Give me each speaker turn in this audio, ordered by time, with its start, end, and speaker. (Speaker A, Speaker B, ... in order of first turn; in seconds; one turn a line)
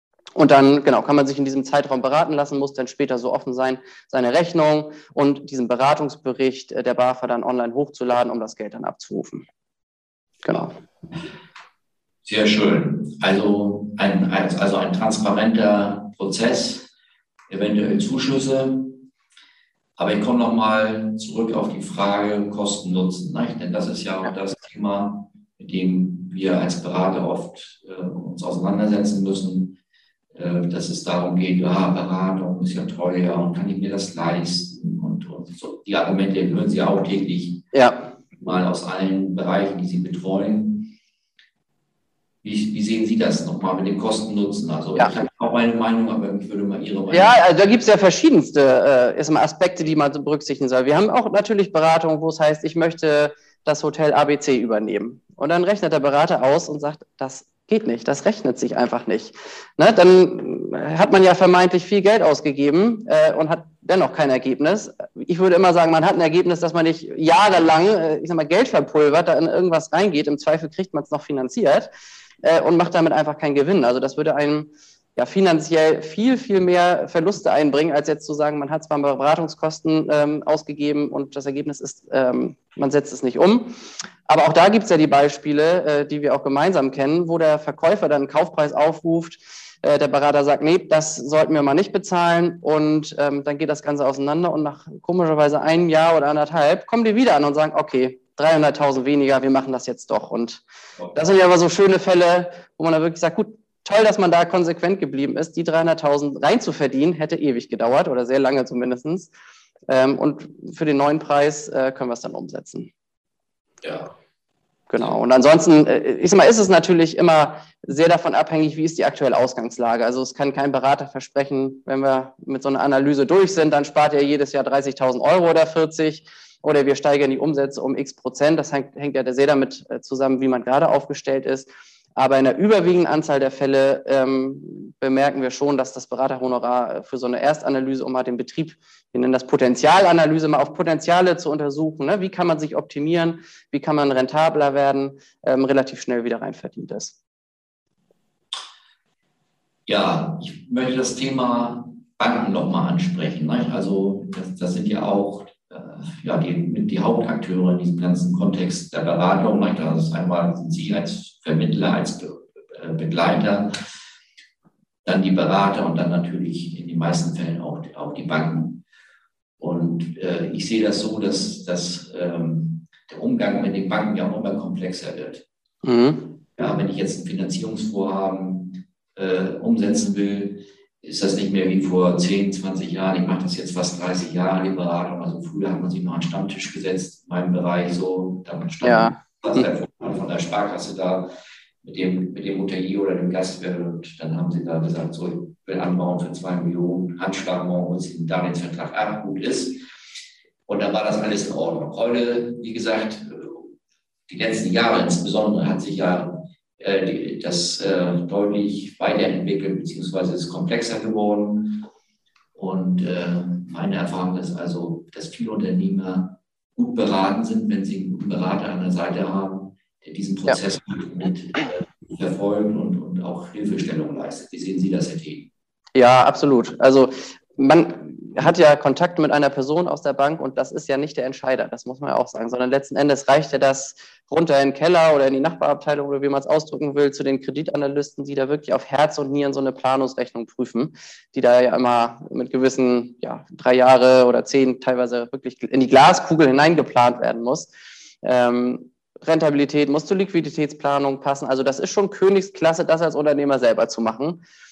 Speaker A: 0.3-9.4
Speaker A: 10.4-10.7
Speaker B: 12.2-16.9
Speaker B: 17.5-19.0
Speaker B: 20.0-29.8
Speaker B: 30.3-37.6
Speaker A: 37.7-38.1
Speaker B: 38.4-40.9
Speaker B: 42.4-47.4
Speaker A: 45.0-45.2
Speaker A: 47.1-71.9
Speaker A: 72.4-83.7
Speaker A: 84.3-100.6
Speaker A: 101.1-109.3
Speaker A: 109.9-112.9
Speaker B: 113.8-114.1
Speaker A: 114.9-147.2
Speaker B: 149.9-163.8
Speaker B: 165.0-168.8
Speaker B: 169.6-175.4
Speaker A: 175.8-176.4
Speaker B: 176.6-191.3
Speaker A: 188.8-189.7
Speaker B: 191.8-199.8
Speaker B: 200.7-203.7
Speaker B: 204.3-211.9
Speaker B: 212.5-225.5
Speaker A: 225.9-247.7
Speaker A: 248.2-254.4